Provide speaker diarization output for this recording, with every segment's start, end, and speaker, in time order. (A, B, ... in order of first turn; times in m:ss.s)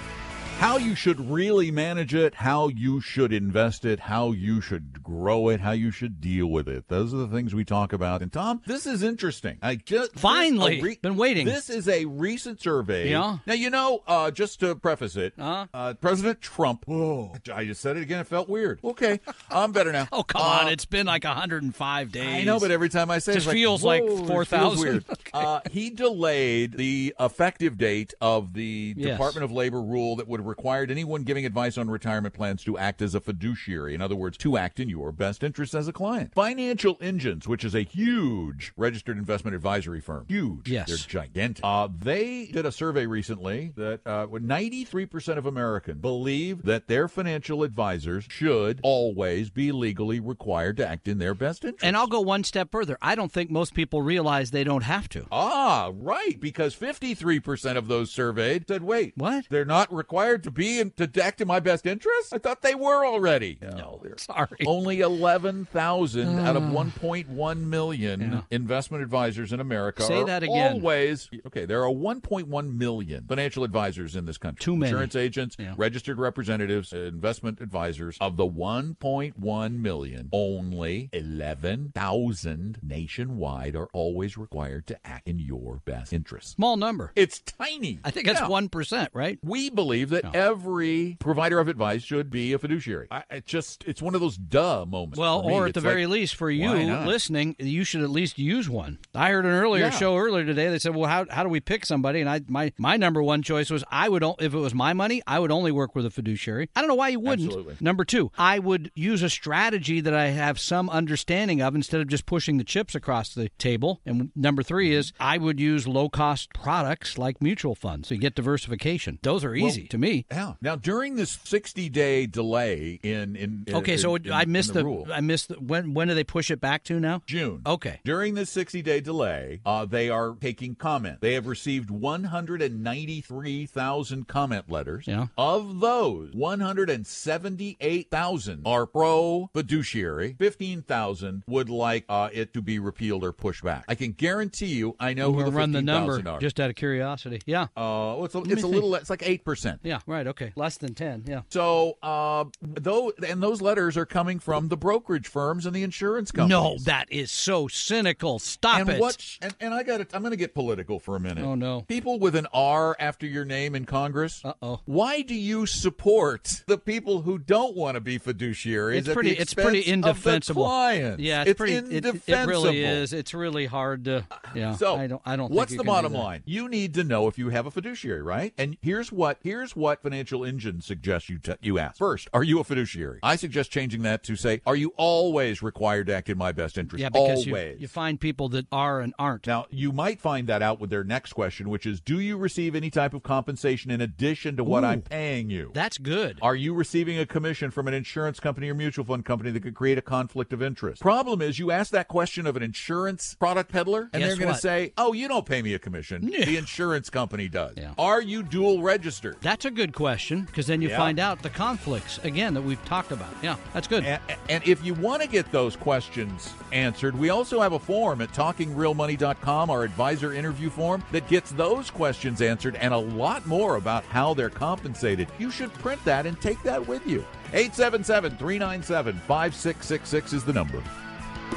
0:00.6-0:20.8 A
0:10.2-0:11.6 B
0:13.0-0:13.4 B
0:15.4-0:15.7 B
0:20.1-0:22.7 B
0:22.2-0:52.1 A
0:23.3-0:25.5 B
0:29.0-0:29.4 B
0:40.6-0:41.1 B
0:51.8-0:55.3 B
0:55.3-1:26.6 A
0:59.2-0:59.4 B
1:03.6-1:04.7 B
1:06.2-1:06.9 B
1:08.2-1:08.4 B
1:10.0-1:10.8 B
1:14.6-1:15.8 B
1:26.6-1:27.1 B
1:27.1-1:28.5 A
1:28.0-1:29.4 B
1:29.4-1:37.2 A
1:35.1-2:00.2 B
1:39.7-1:40.1 A
1:47.2-1:47.8 A
1:59.6-2:05.1 A
2:03.7-2:08.0 B
2:07.3-2:26.4 A
2:25.2-2:27.7 B
2:27.7-2:29.8 A
2:28.4-2:28.9 B
2:29.8-2:31.4 B
2:31.5-2:36.9 A
2:36.3-2:39.2 B
2:38.7-2:53.0 A
2:41.4-2:41.8 B
2:44.4-2:44.8 B
2:48.9-2:56.3 B
2:54.4-3:07.9 A
3:07.0-3:09.5 B
3:09.4-3:15.8 A
3:14.6-3:15.0 B
3:15.7-3:16.4 B
3:16.4-3:29.4 A
3:24.1-3:24.6 B
3:26.2-3:26.7 B
3:29.4-3:34.1 B
3:30.8-3:31.2 A
3:34.0-3:50.9 A